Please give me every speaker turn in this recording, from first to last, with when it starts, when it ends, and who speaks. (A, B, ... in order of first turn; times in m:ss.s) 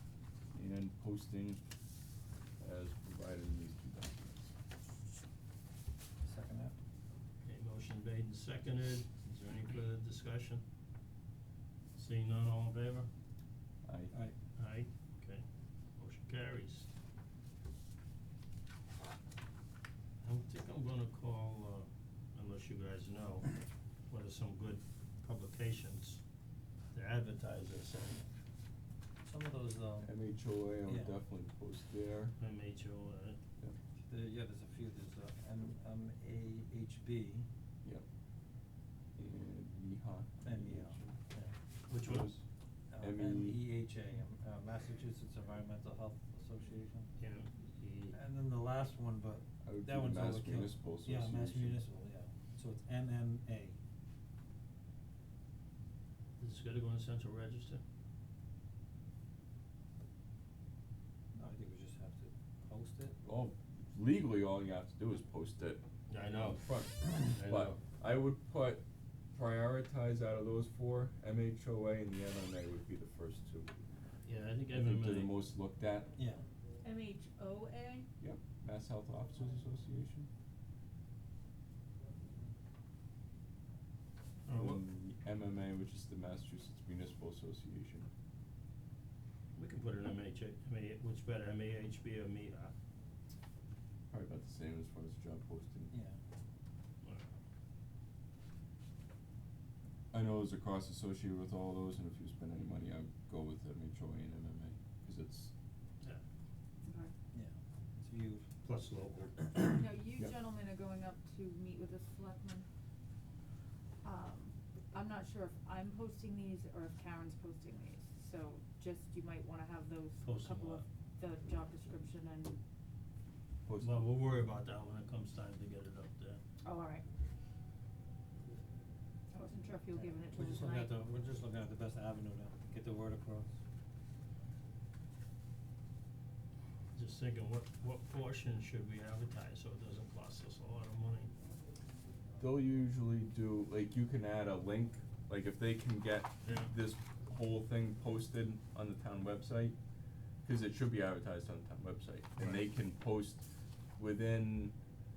0:00.5-0:01.6 A
0:02.6-0:04.5 A
0:06.2-0:06.7 B
0:07.4-0:10.6 C
0:11.9-0:13.1 C
0:13.8-0:14.1 A
0:14.6-0:15.4 C
0:16.0-0:16.9 C
0:20.2-0:23.6 C
0:24.1-0:26.2 C
0:26.9-0:28.3 C
0:29.2-0:30.1 B
0:30.0-0:32.3 A
0:30.8-0:31.1 B
0:32.4-0:33.4 C
0:34.0-0:37.5 B
0:39.2-0:41.2 A
0:40.4-0:41.5 B
0:41.9-0:42.3 C
0:42.0-0:42.4 A
0:42.9-0:47.1 B
0:43.0-0:43.7 A
0:47.2-0:48.2 C
0:48.1-0:53.8 B
0:49.6-0:51.8 A
0:56.4-0:57.8 C
1:01.3-1:03.1 B
1:03.2-1:08.8 A
1:06.1-1:06.7 C
1:07.2-1:07.8 C
1:09.3-1:13.8 A
1:14.2-1:15.3 C
1:14.7-1:16.1 A
1:16.2-1:16.4 B
1:16.8-1:18.1 D
1:18.2-1:20.3 A
1:24.4-1:24.8 C
1:24.5-1:28.1 A
1:29.5-1:32.7 C
1:34.1-1:35.9 A
1:35.9-1:36.2 B
1:37.0-1:37.3 C
1:40.1-1:45.5 A
1:46.8-1:47.1 D
1:47.3-1:48.5 B
1:48.6-1:49.5 C
1:49.7-1:52.6 D
1:54.0-2:02.6 D
2:00.2-2:00.8 C
2:03.6-2:04.1 A
2:03.8-2:06.4 C
2:06.6-2:07.0 D
2:09.3-2:10.9 D
2:09.9-2:13.5 B
2:16.9-2:21.3 C
2:22.4-2:29.7 A
2:26.4-2:26.7 C
2:30.4-2:33.4 A
2:34.0-2:34.7 A